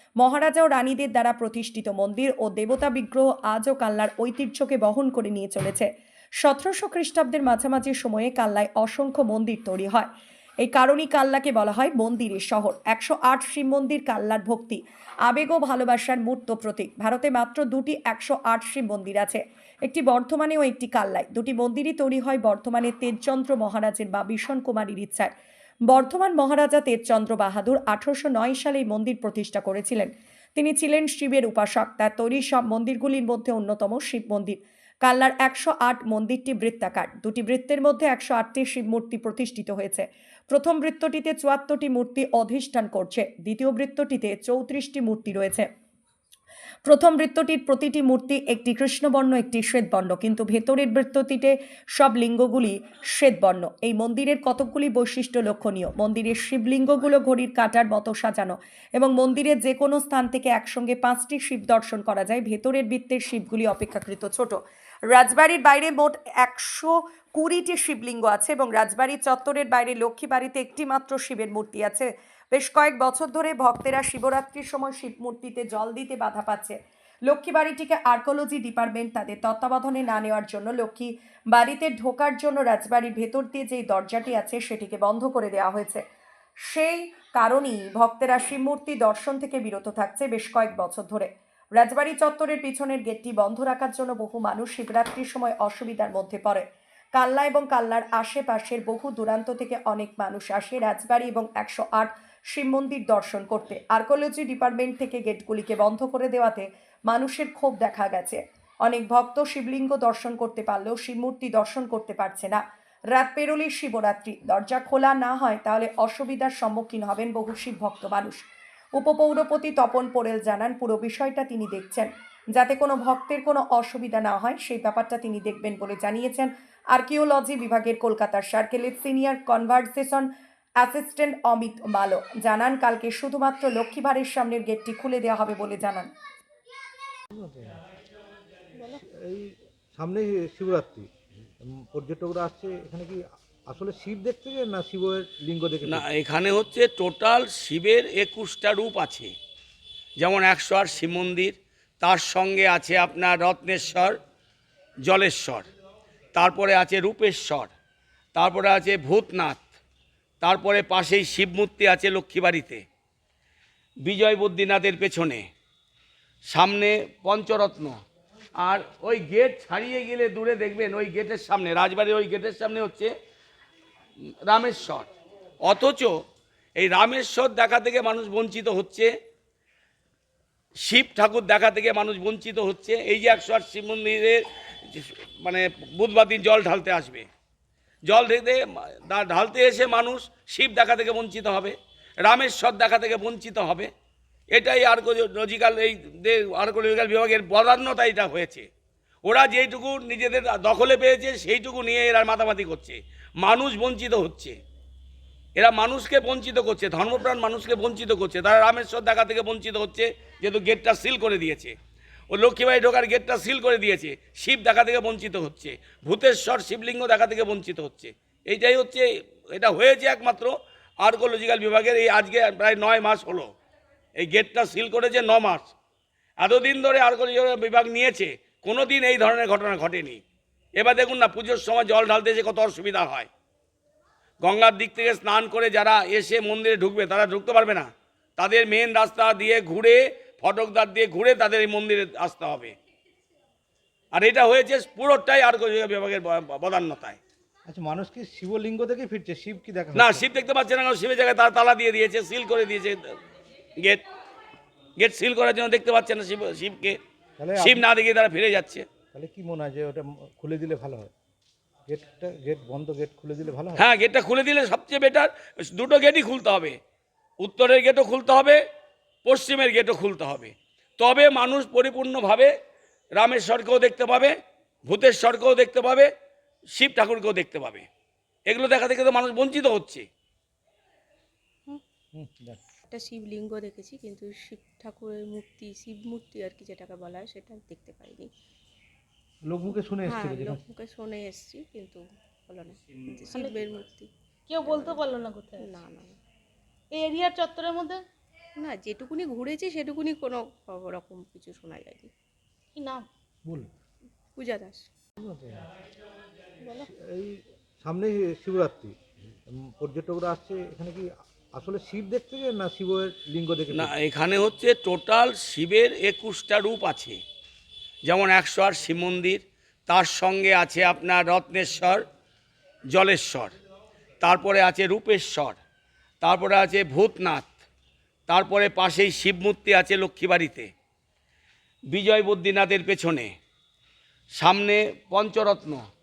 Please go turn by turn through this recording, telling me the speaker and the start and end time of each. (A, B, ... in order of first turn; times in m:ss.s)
0:00.2-0:05.9 A
0:06.4-0:10.1 A
0:10.6-0:25.3 A
0:25.9-0:45.7 A
0:46.8-1:04.6 A
1:05.1-1:26.0 A
1:26.7-1:52.6 A
1:53.1-1:58.4 A
1:59.0-2:10.3 A
2:10.8-2:16.1 A
2:17.3-2:17.8 B
2:19.1-2:21.1 B
2:21.9-2:26.0 B
2:25.9-2:29.3 C
2:30.2-2:34.2 C
2:35.0-2:35.7 C
2:36.3-2:37.7 C
2:38.4-2:39.7 C
2:40.4-2:42.8 C
2:44.0-2:45.4 C
2:46.5-2:47.9 C
2:48.6-2:53.1 C
2:54.5-2:55.1 C
2:55.6-2:56.1 C
2:56.8-2:59.1 C
3:00.8-3:04.4 C
3:04.9-3:07.2 C
3:08.1-3:13.9 C
3:14.5-3:18.7 C
3:19.2-3:24.6 C
3:25.6-3:31.8 C
3:32.3-3:43.5 C
3:44.2-3:45.7 C
3:46.4-3:50.2 C
3:50.8-3:53.3 C
3:54.4-4:02.7 C
4:04.1-4:07.2 C
4:07.7-4:10.2 B
4:09.9-4:13.0 C
4:15.0-4:17.0 C
4:17.4-4:17.8 B
4:17.6-4:18.8 C
4:19.1-4:21.1 B
4:21.9-4:23.9 B
4:23.8-4:26.8 C
4:27.4-4:28.6 C
4:29.2-4:32.5 C
4:33.2-4:34.4 C
4:34.9-4:36.1 C
4:36.8-4:37.9 C
4:38.5-4:40.0 C
4:42.2-4:42.6 B
4:42.9-4:48.3 D
4:49.4-4:50.6 B
4:49.7-4:54.1 D
4:53.3-4:53.6 E
4:54.5-4:55.7 E
4:54.6-4:55.0 D
4:55.6-4:56.2 D
4:56.9-4:58.0 E
4:58.6-5:02.1 D
5:02.8-5:03.1 E
5:03.4-5:03.7 B
5:04.4-5:04.9 D
5:05.2-5:05.6 B
5:06.8-5:08.9 B
5:09.7-5:13.9 B
5:13.7-5:17.2 C
5:18.0-5:22.0 C
5:22.9-5:23.5 C
5:24.2-5:25.6 C
5:26.2-5:27.5 C
5:28.3-5:30.7 C
5:31.9-5:33.3 C
5:34.4-5:35.8 C